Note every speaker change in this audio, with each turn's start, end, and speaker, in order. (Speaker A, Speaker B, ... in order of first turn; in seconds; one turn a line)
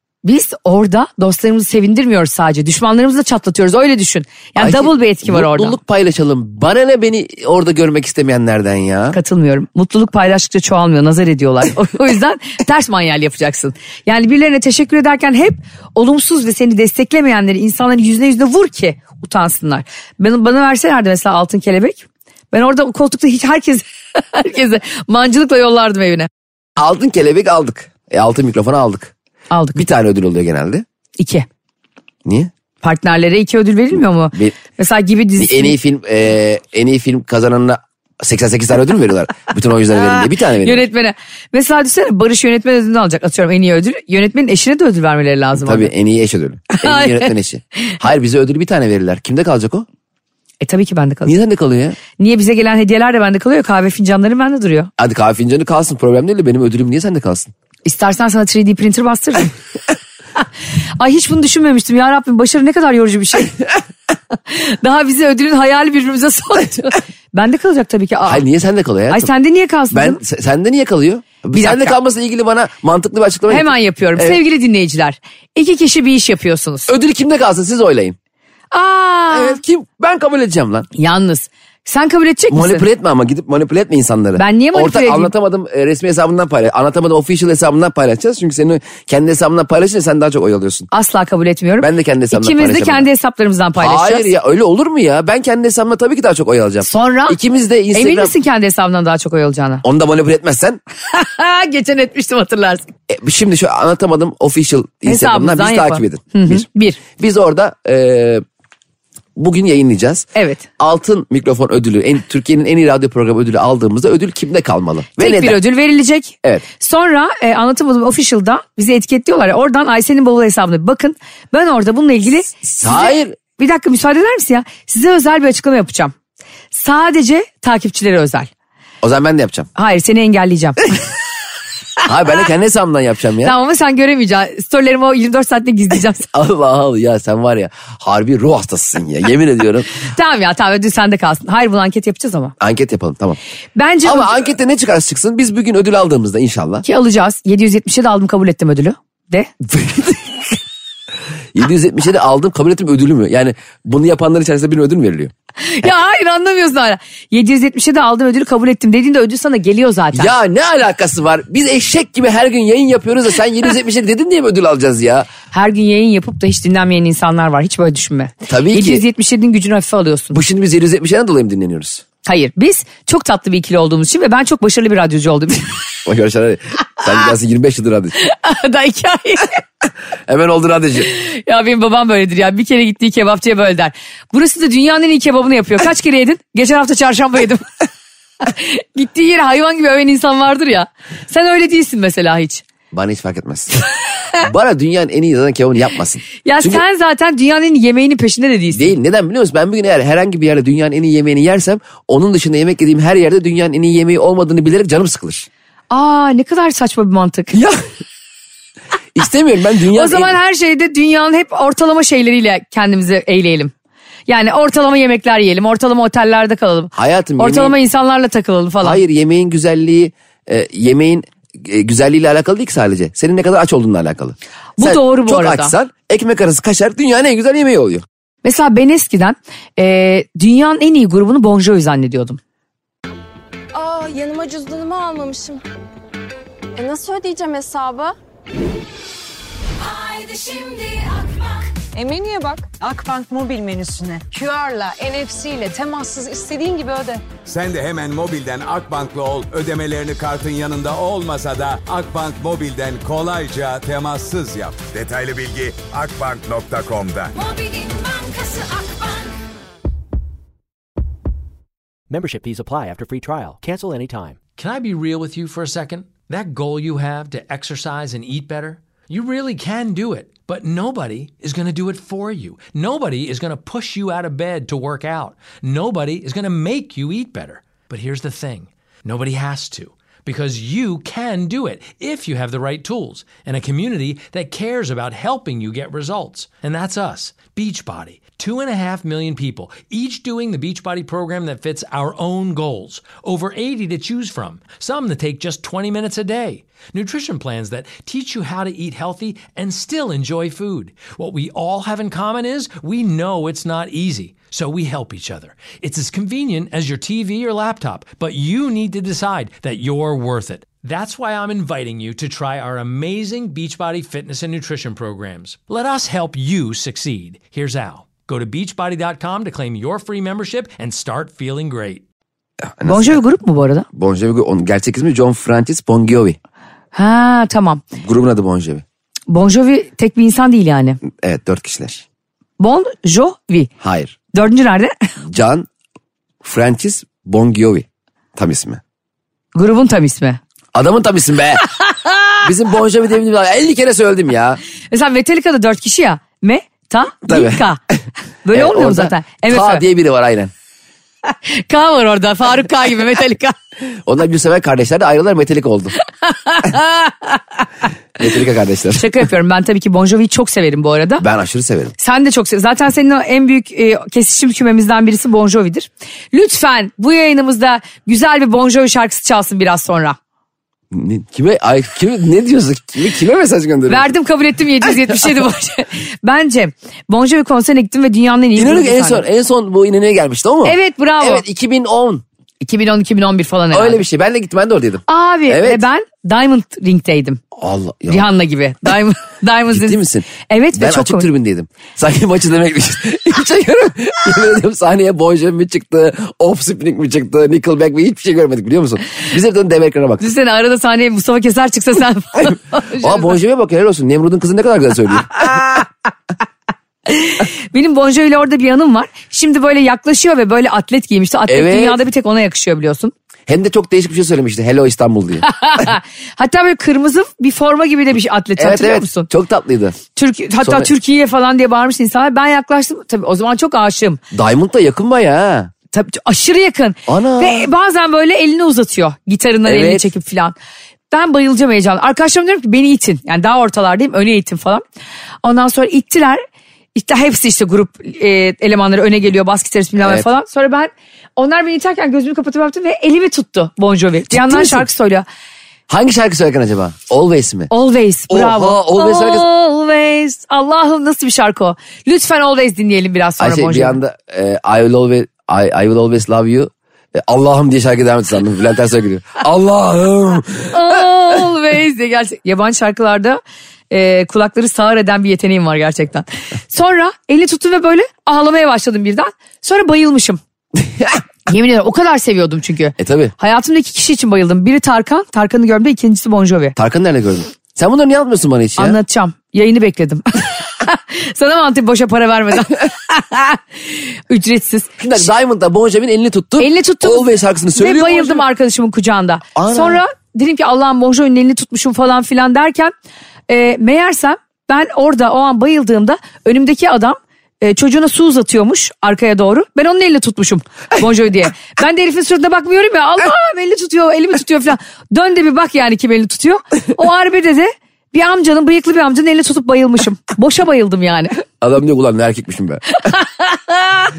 Speaker A: 0.2-5.8
Speaker B: 4.6-9.2
Speaker A: 9.1-26.3
Speaker B: 26.8-29.1
Speaker A: 29.5-29.8
Speaker B: 29.8-30.9
Speaker A: 31.2-31.5
Speaker B: 32.2-32.5
Speaker A: 32.8-35.8
Speaker B: 35.4-40.9
Speaker A: 40.1-45.9
Speaker B: 45.5-49.9
Speaker A: 46.7-47.3
Speaker A: 50.6-51.3
Speaker B: 51.3-52.0
Speaker A: 52.2-54.9
Speaker B: 55.0-57.5
Speaker A: 57.9-59.5
Speaker A: 61.0-63.5
Speaker A: 64.5-68.4
Speaker B: 68.2-69.3
Speaker A: 69.1-70.2
Speaker B: 69.9-74.4
Speaker A: 71.5-72.0
Speaker A: 73.5-76.9
Speaker B: 76.9-78.2
Speaker A: 78.7-79.6
Speaker B: 79.3-80.9
Speaker A: 81.0-82.9
Speaker B: 82.5-90.9
Speaker A: 84.4-85.3
Speaker A: 90.9-94.3
Speaker B: 91.8-93.1
Speaker B: 93.8-98.3
Speaker A: 96.8-97.4
Speaker A: 97.9-99.8
Speaker B: 99.8-100.8
Speaker A: 101.1-102.9
Speaker B: 103.1-106.7
Speaker A: 105.1-107.0
Speaker B: 107.2-108.4
Speaker B: 109.4-110.3
Speaker A: 110.3-110.7
Speaker B: 110.8-115.6
Speaker A: 115.2-126.1
Speaker B: 122.7-123.4
Speaker A: 126.7-128.5
Speaker B: 129.0-129.7
Speaker A: 129.8-130.9
Speaker B: 132.0-133.6
Speaker A: 133.4-136.3
Speaker B: 136.3-139.9
Speaker A: 140.0-142.6
Speaker B: 142.6-143.4
Speaker A: 143.8-144.4
Speaker B: 144.0-146.8
Speaker A: 146.8-149.5
Speaker B: 149.6-150.6
Speaker B: 151.5-155.3
Speaker A: 155.6-160.3
Speaker B: 160.1-165.3
Speaker A: 165.5-170.4
Speaker B: 168.5-169.0
Speaker B: 170.3-172.0
Speaker A: 172.3-175.7
Speaker B: 176.1-178.2
Speaker A: 178.2-179.6
Speaker B: 180.3-181.1
Speaker A: 181.1-187.7
Speaker A: 188.4-192.6
Speaker B: 192.9-193.7
Speaker B: 194.4-196.8
Speaker A: 196.4-198.9
Speaker B: 198.7-205.5
Speaker A: 205.9-207.6
Speaker B: 207.5-207.8
Speaker B: 209.1-210.3
Speaker A: 209.9-213.7
Speaker A: 214.3-219.0
Speaker B: 216.9-217.8
Speaker B: 218.8-228.1
Speaker A: 224.8-225.7
Speaker A: 228.4-232.4
Speaker C: 233.7-235.6
Speaker C: 236.8-238.1
Speaker D: 239.8-247.3
Speaker E: 247.4-257.4
Speaker D: 257.4-259.3
Speaker F: 262.1-264.4
Speaker G: 264.6-322.1
Speaker B: 322.6-323.2
Speaker A: 322.8-323.9
Speaker B: 323.9-326.4
Speaker A: 326.9-327.8
Speaker B: 328.0-328.8
Speaker A: 329.3-331.0
Speaker B: 331.1-332.0
Speaker A: 332.6-333.7
Speaker B: 333.8-334.2
Speaker A: 334.3-334.9
Speaker B: 335.3-335.7
Speaker B: 336.4-338.8
Speaker A: 339.6-340.4
Speaker B: 340.7-341.6
Speaker B: 342.4-344.6
Speaker A: 344.9-347.8
Speaker B: 347.3-347.7
Speaker A: 348.4-349.8
Speaker B: 348.5-350.5
Speaker A: 351.4-353.6
Speaker B: 354.1-355.9
Speaker A: 356.3-357.4
Speaker B: 358.2-359.1
Speaker A: 358.9-361.2
Speaker B: 361.2-361.9
Speaker A: 362.0-370.2
Speaker B: 370.9-374.1
Speaker A: 373.9-379.2
Speaker B: 378.6-382.2
Speaker A: 380.6-381.4
Speaker A: 382.6-384.0
Speaker B: 383.7-385.8
Speaker A: 385.1-387.4
Speaker B: 387.6-388.3
Speaker A: 388.1-391.3
Speaker B: 389.7-400.3
Speaker A: 400.2-403.4
Speaker B: 403.0-405.6
Speaker A: 405.5-405.8
Speaker A: 407.1-413.1
Speaker B: 411.5-412.0
Speaker B: 413.5-415.5
Speaker A: 415.4-419.3
Speaker B: 418.6-420.0
Speaker A: 420.1-424.2
Speaker B: 420.6-420.9
Speaker B: 424.3-425.7
Speaker A: 425.9-430.6
Speaker B: 427.1-427.7
Speaker B: 429.6-430.1
Speaker A: 431.1-434.8
Speaker A: 435.4-436.4
Speaker A: 436.9-445.3
Speaker B: 440.0-440.3
Speaker B: 444.3-444.9
Speaker B: 445.9-447.7
Speaker A: 447.7-454.0
Speaker B: 448.3-449.5
Speaker B: 453.4-461.0
Speaker A: 460.7-470.4
Speaker B: 470.8-471.2
Speaker A: 471.5-476.8
Speaker B: 473.0-473.3
Speaker B: 476.8-479.0
Speaker A: 478.8-485.0
Speaker B: 485.0-488.4
Speaker A: 486.6-492.9
Speaker B: 489.6-490.0
Speaker A: 493.5-511.4
Speaker B: 511.6-512.9
Speaker A: 513.1-514.1